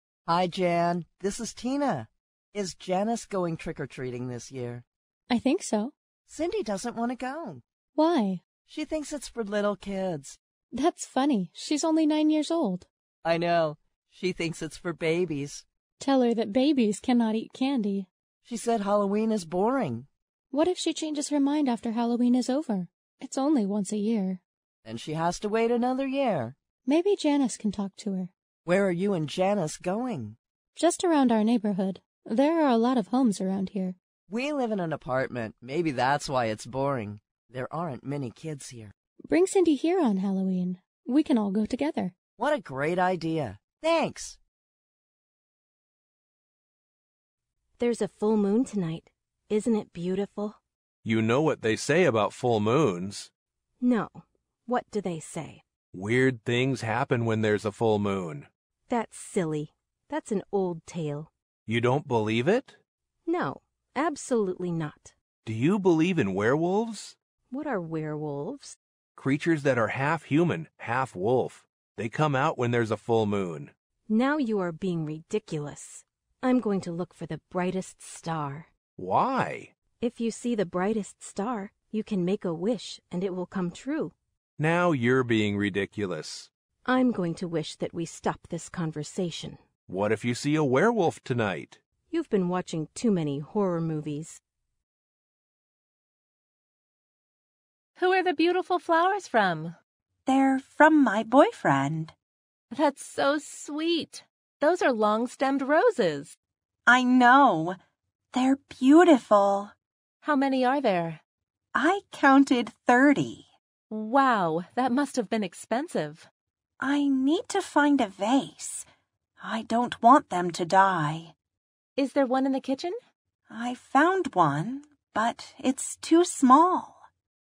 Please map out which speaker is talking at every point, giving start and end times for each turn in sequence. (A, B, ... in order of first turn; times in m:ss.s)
0:00.3-0:04.8 A
0:05.3-0:05.9 B
0:06.3-0:07.6 A
0:08.0-0:08.4 B
0:08.7-0:10.4 A
0:10.7-0:12.9 B
0:13.2-0:15.6 A
0:16.0-0:18.1 B
0:18.4-0:20.1 A
0:20.5-0:24.4 B
0:24.8-0:26.6 A
0:26.9-0:28.3 B
0:28.7-0:30.4 A
0:30.8-0:34.0 B
0:34.3-0:38.9 A
0:39.3-0:42.1 B
0:42.4-0:44.4 A
0:47.8-0:50.6 C
0:51.0-0:53.3 D
0:53.8-0:55.6 C
0:55.9-0:58.5 D
0:58.9-1:01.3 C
1:01.7-1:02.8 D
1:03.3-1:05.1 C
1:05.4-1:07.2 D
1:07.5-1:08.8 C
1:09.2-1:13.7 D
1:14.1-1:18.7 C
1:19.0-1:19.7 D
1:20.0-1:24.1 C
1:24.6-1:26.5 D
1:26.9-1:29.6 C
1:29.9-1:31.8 D
1:32.1-1:34.4 C
1:38.0-1:39.8 E
1:40.3-1:42.1 F
1:42.7-1:46.4 E
1:46.9-1:47.8 F
1:48.3-1:49.7 F
1:50.2-1:51.2 E
1:51.8-1:53.5 F
1:53.9-1:56.3 E
1:56.8-1:58.8 F
1:59.4-2:01.3 F
2:02.0-2:03.0 E
2:03.5-2:07.0 F